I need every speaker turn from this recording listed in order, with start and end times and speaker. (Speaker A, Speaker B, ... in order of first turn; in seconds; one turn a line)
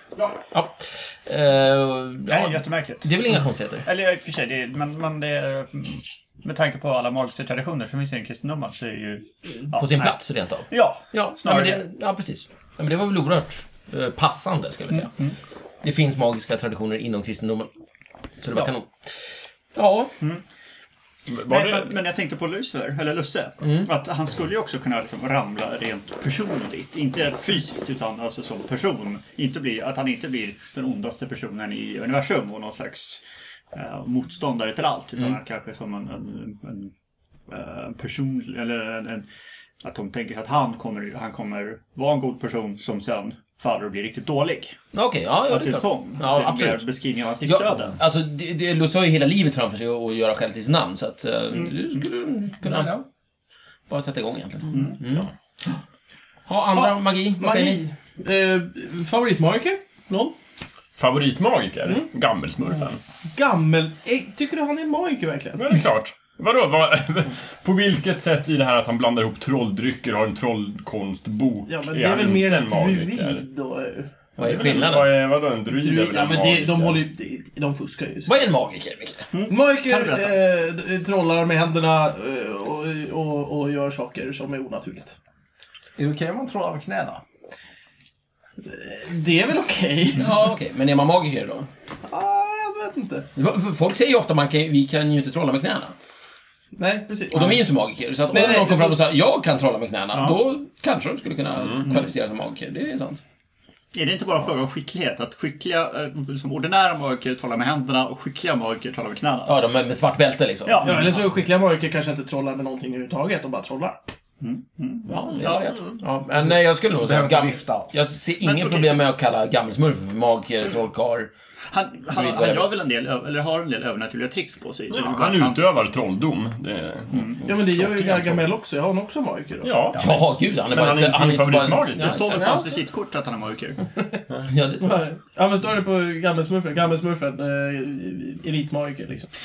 Speaker A: 0.5-3.9
Speaker B: 2.3-3.1
Speaker B: 3.8-11.8
Speaker A: 9.7-15.1
Speaker B: 14.9-15.3
Speaker A: 15.8-17.7
Speaker A: 18.4-18.9
Speaker A: 19.7-20.1
Speaker C: 21.3-21.9
Speaker B: 21.5-33.2
Speaker B: 33.7-36.9
Speaker B: 37.5-39.3
Speaker B: 39.8-44.8
Speaker A: 44.9-46.9
Speaker B: 45.5-48.0
Speaker A: 47.4-53.0
Speaker D: 52.6-53.0
Speaker A: 53.9-55.3
Speaker A: 56.5-57.8
Speaker E: 56.8-60.4
Speaker C: 61.0-63.0
Speaker E: 63.3-65.8
Speaker C: 65.6-73.4
Speaker E: 71.7-74.1
Speaker A: 74.4-75.1
Speaker C: 74.4-77.0
Speaker E: 75.7-78.3
Speaker A: 78.3-79.3
Speaker B: 79.3-80.4
Speaker E: 79.5-85.2
Speaker D: 86.0-87.2
Speaker E: 88.6-90.3
Speaker A: 90.2-91.7
Speaker E: 92.1-93.3
Speaker A: 93.3-95.9
Speaker E: 96.7-97.6
Speaker A: 97.3-103.2
Speaker E: 98.3-99.0
Speaker B: 103.9-109.6
Speaker A: 109.5-110.9
Speaker B: 110.7-111.2
Speaker E: 110.8-114.0
Speaker B: 114.4-115.7
Speaker A: 115.0-121.3
Speaker D: 116.3-118.0
Speaker B: 118.4-119.0
Speaker B: 121.7-125.6
Speaker A: 122.1-122.7
Speaker C: 124.9-128.5
Speaker B: 127.1-127.4
Speaker E: 127.4-130.1
Speaker C: 129.6-132.5
Speaker A: 130.0-132.6
Speaker B: 132.0-133.8
Speaker E: 132.3-132.7
Speaker A: 134.5-135.0
Speaker E: 134.8-139.3